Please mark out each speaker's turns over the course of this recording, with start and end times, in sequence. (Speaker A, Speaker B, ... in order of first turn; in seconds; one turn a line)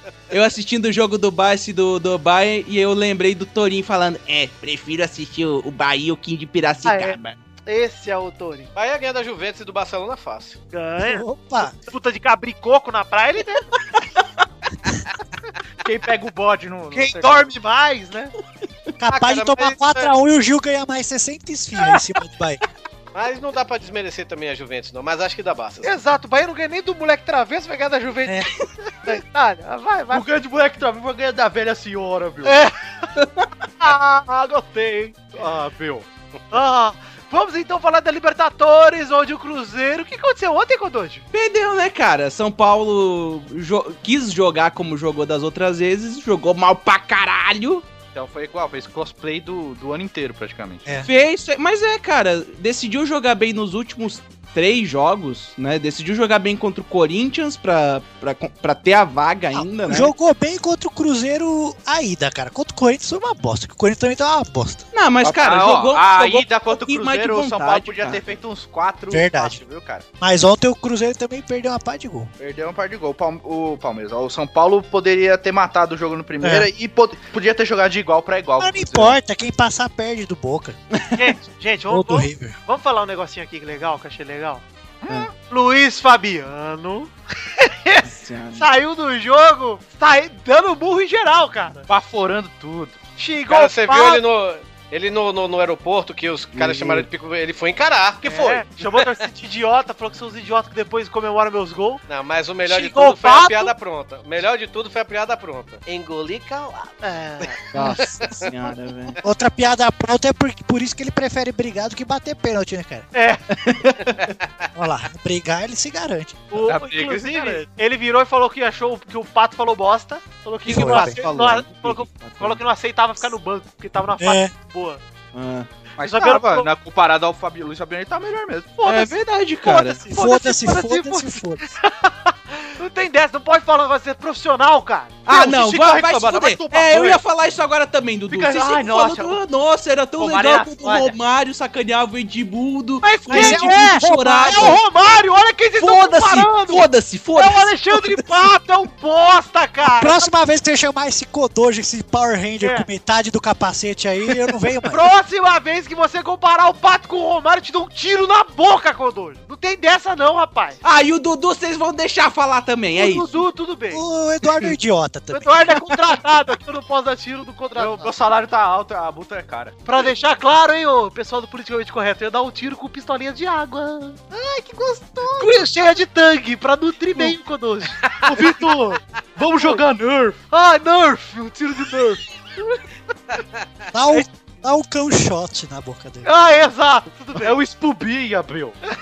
Speaker A: 0.3-7.4
Speaker B: 6.8-8.7
Speaker C: 8.7-10.6
Speaker B: 10.7-13.7
Speaker D: 11.0-11.7
Speaker E: 15.8-17.5
Speaker B: 16.9-18.3
Speaker D: 19.0-22.6
Speaker C: 19.1-20.1
Speaker C: 23.1-25.9
Speaker B: 25.8-28.5
Speaker B: 29.0-30.2
Speaker E: 30.1-32.6
Speaker B: 32.4-33.1
Speaker A: 33.2-33.5
Speaker B: 33.8-35.4
Speaker E: 35.3-36.0
Speaker B: 36.5-41.2
Speaker A: 41.3-47.9
Speaker E: 48.1-50.9
Speaker A: 51.0-60.1
Speaker D: 59.5-64.8
Speaker A: 64.9-68.3
Speaker E: 65.2-70.0
Speaker D: 69.1-69.6
Speaker D: 70.2-72.3
Speaker E: 72.4-79.2
Speaker D: 76.4-76.7
Speaker D: 78.6-80.8
Speaker B: 81.1-84.6
Speaker D: 81.9-82.5
Speaker E: 85.0-85.3
Speaker B: 85.4-91.9
Speaker A: 88.0-88.7
Speaker E: 91.9-93.0
Speaker B: 93.2-94.2
Speaker C: 93.5-99.1
Speaker A: 96.5-97.1
Speaker B: 98.2-102.0
Speaker C: 102.1-107.0
Speaker B: 102.6-103.7
Speaker B: 107.0-108.0
Speaker A: 107.7-109.2
Speaker C: 108.0-108.5
Speaker D: 109.2-113.1
Speaker B: 113.1-113.4
Speaker A: 113.5-114.2
Speaker D: 114.7-116.5
Speaker B: 116.5-125.0
Speaker E: 116.6-117.7
Speaker A: 120.7-122.6
Speaker D: 120.7-121.2
Speaker D: 124.2-124.5
Speaker A: 125.3-125.7
Speaker E: 126.0-128.8
Speaker B: 126.0-126.7
Speaker B: 128.8-135.2
Speaker A: 128.8-130.1
Speaker D: 130.1-131.6
Speaker A: 135.2-144.8
Speaker E: 135.3-137.2
Speaker E: 138.3-139.4
Speaker E: 140.2-141.1
Speaker B: 143.0-150.3
Speaker D: 143.3-144.7
Speaker A: 145.8-148.2
Speaker D: 149.9-155.0
Speaker B: 152.6-152.9
Speaker B: 154.8-160.8
Speaker A: 160.8-163.4
Speaker B: 162.9-164.0
Speaker D: 163.9-165.7
Speaker B: 165.3-168.1
Speaker E: 167.7-170.1
Speaker B: 169.8-174.3
Speaker E: 174.4-175.6
Speaker B: 175.2-178.6
Speaker E: 178.2-180.4
Speaker B: 179.4-179.8
Speaker B: 180.5-182.2
Speaker D: 183.9-186.3
Speaker B: 186.2-187.6
Speaker E: 187.3-188.8